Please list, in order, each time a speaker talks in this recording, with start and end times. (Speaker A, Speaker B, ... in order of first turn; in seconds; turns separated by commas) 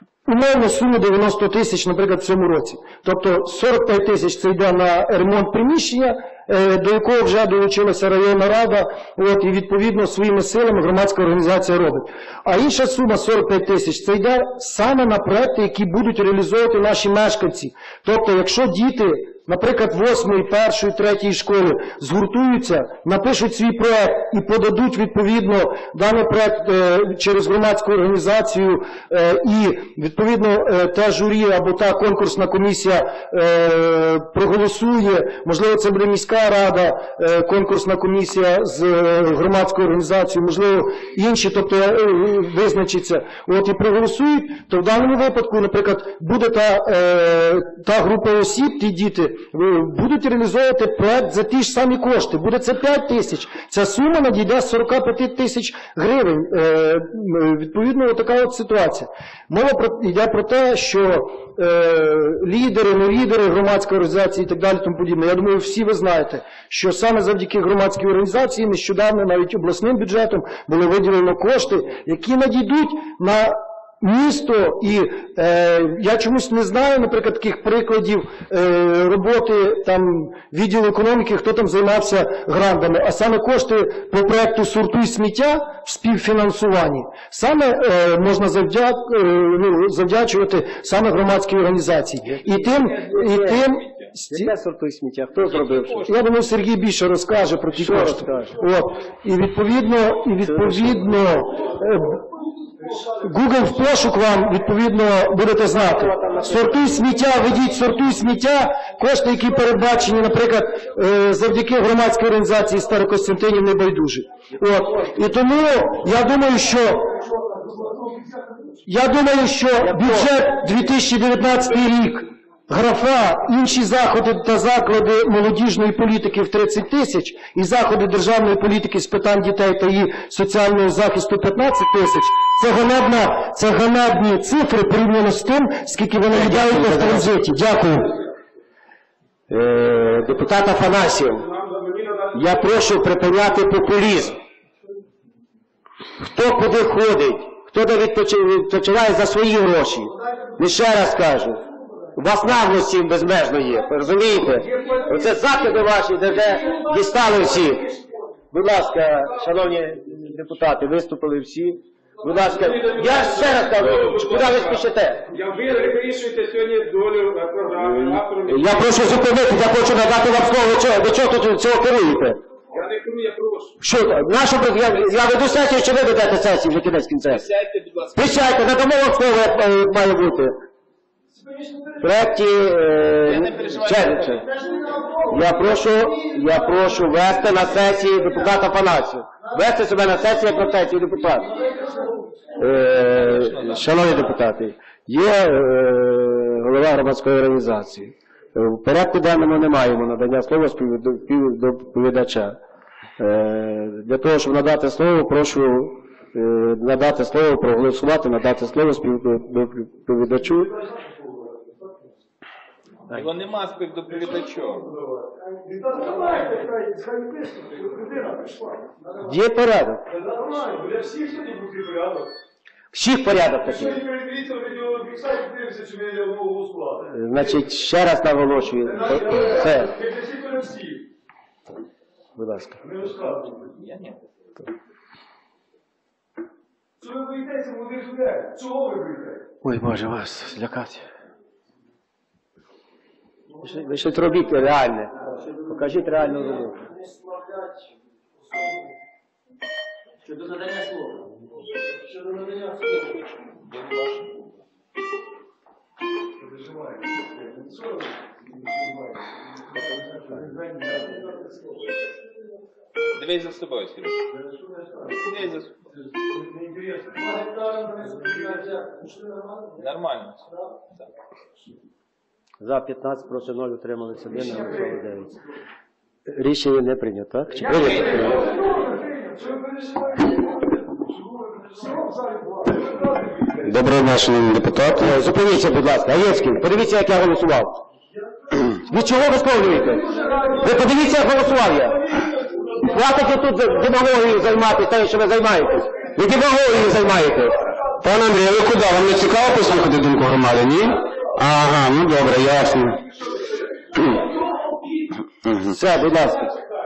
Speaker A: 0.3-94.5, Speaker B: 92.2-93.6, Speaker C: 92.8-94.1, Speaker B: 94.3-96.1, Speaker C: 95.4-96.1, Speaker A: 96.0-102.2, Speaker B: 97.7-98.6, Speaker B: 100.4-101.2, Speaker A: 103.0-117.2, Speaker B: 105.9-106.7, Speaker A: 118.9-137.8, Speaker B: 119.8-120.3, Speaker B: 136.3-138.1, Speaker B: 139.5-141.5, Speaker D: 141.4-142.7, Speaker B: 142.3-144.4, Speaker B: 146.2-151.6, Speaker B: 152.2-157.9, Speaker B: 158.5-165.2, Speaker D: 162.5-168.9, Speaker B: 167.8-172.4, Speaker D: 172.7-173.8, Speaker B: 173.8-177.4, Speaker C: 177.3-178.3, Speaker B: 178.2-180.6, Speaker B: 182.0-184.5, Speaker C: 183.2-184.5, Speaker B: 185.2-191.6, Speaker B: 192.6-202.6, Speaker C: 193.0-194.0, Speaker B: 203.2-210.8, Speaker C: 213.1-214.9, Speaker B: 219.2-220.1, Speaker D: 221.1-222.2, Speaker B: 222.9-224.1, Speaker D: 224.2-226.8, Speaker B: 227.1-229.9, Speaker B: 232.4-233.3, Speaker C: 233.7-234.2, Speaker B: 239.6-241.1, Speaker B: 243.6-246.9, Speaker C: 252.9-254.3, Speaker C: 263.1-264.2, Speaker C: 265.2-265.9, Speaker C: 269.8-271.1, Speaker B: 272.6-275.3, Speaker B: 276.3-278.5, Speaker C: 277.9-278.2, Speaker E: 283.6-285.2, Speaker B: 285.0-287.8, Speaker B: 288.6-292.2, Speaker B: 292.8-297.6, Speaker E: 298.0-303.0, Speaker E: 305.4-305.7, Speaker B: 305.6-306.6